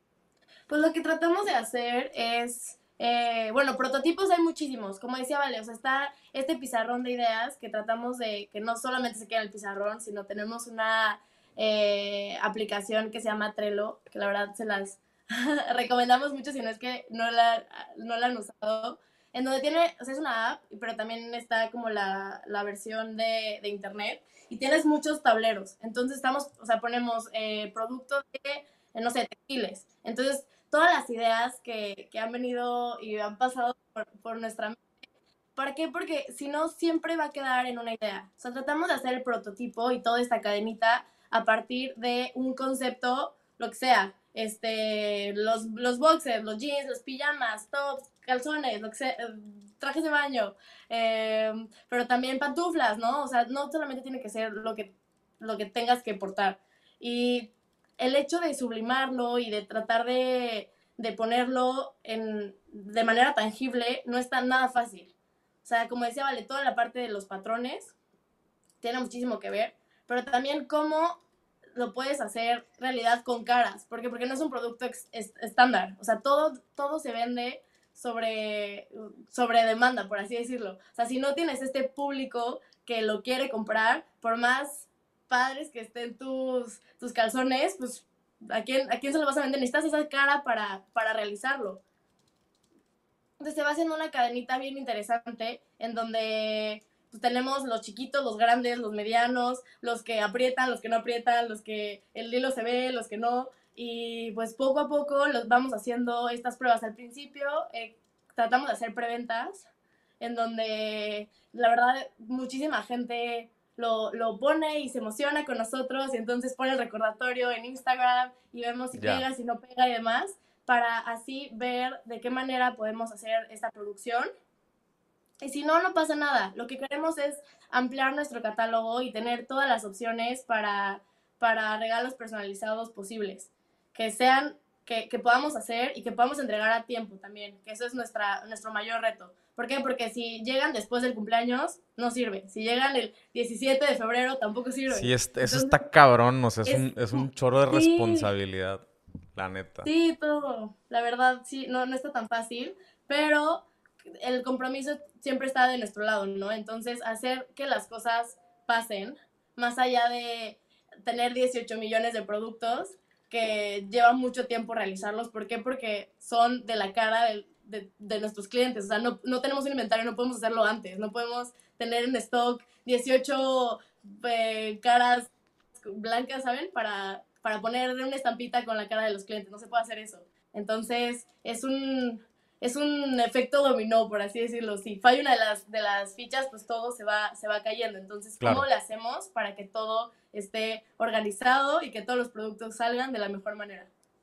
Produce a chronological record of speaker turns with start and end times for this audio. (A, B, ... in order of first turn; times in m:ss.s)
0:00.7-0:34.8 A
0:35.6-1:05.1 A
1:05.6-1:07.9 A
1:08.8-1:11.2 A
1:11.7-1:31.8 A
1:33.4-1:49.7 A
1:50.2-2:04.3 A
1:58.9-1:59.2 B
2:05.4-2:25.8 A
2:24.9-2:28.8 B
2:26.6-2:28.3 A
2:29.4-2:29.9 B
2:29.8-3:13.9 A
3:08.4-3:08.7 B